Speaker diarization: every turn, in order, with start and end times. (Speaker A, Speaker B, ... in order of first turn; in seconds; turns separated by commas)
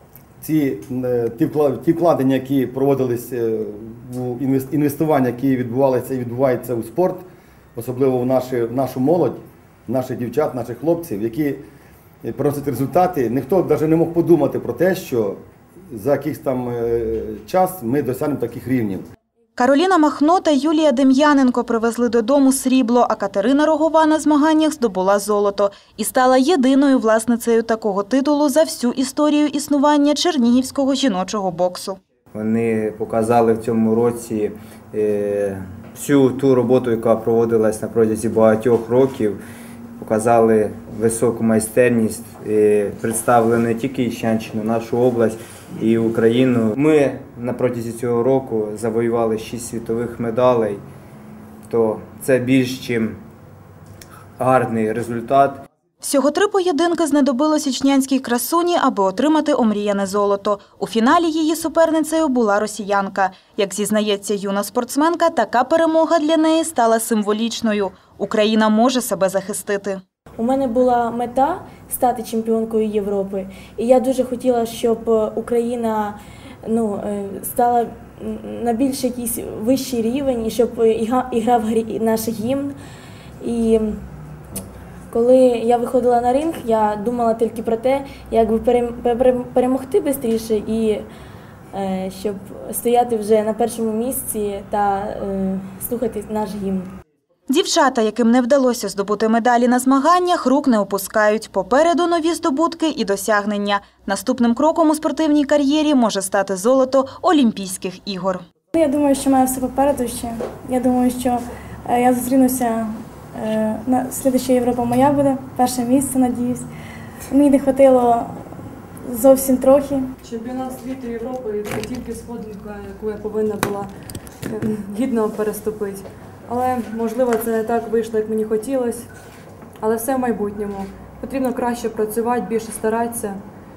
Speaker A: 0.4-11.6, Speaker A: 12.2-15.4, Speaker A: 15.9-19.1, Speaker B: 19.6-32.0, Speaker C: 32.3-39.4, Speaker C: 40.0-50.8, Speaker C: 51.7-53.2, Speaker C: 54.4-55.6, Speaker B: 56.0-70.0, Speaker D: 70.4-82.8, Speaker D: 83.4-84.0, Speaker D: 85.1-91.1, Speaker D: 91.7-96.9, Speaker B: 97.5-108.4, Speaker E: 108.7-116.7, Speaker E: 117.3-118.3, Speaker E: 119.0-120.1, Speaker F: 120.2-123.9, Speaker F: 124.5-129.1, Speaker F: 129.8-133.4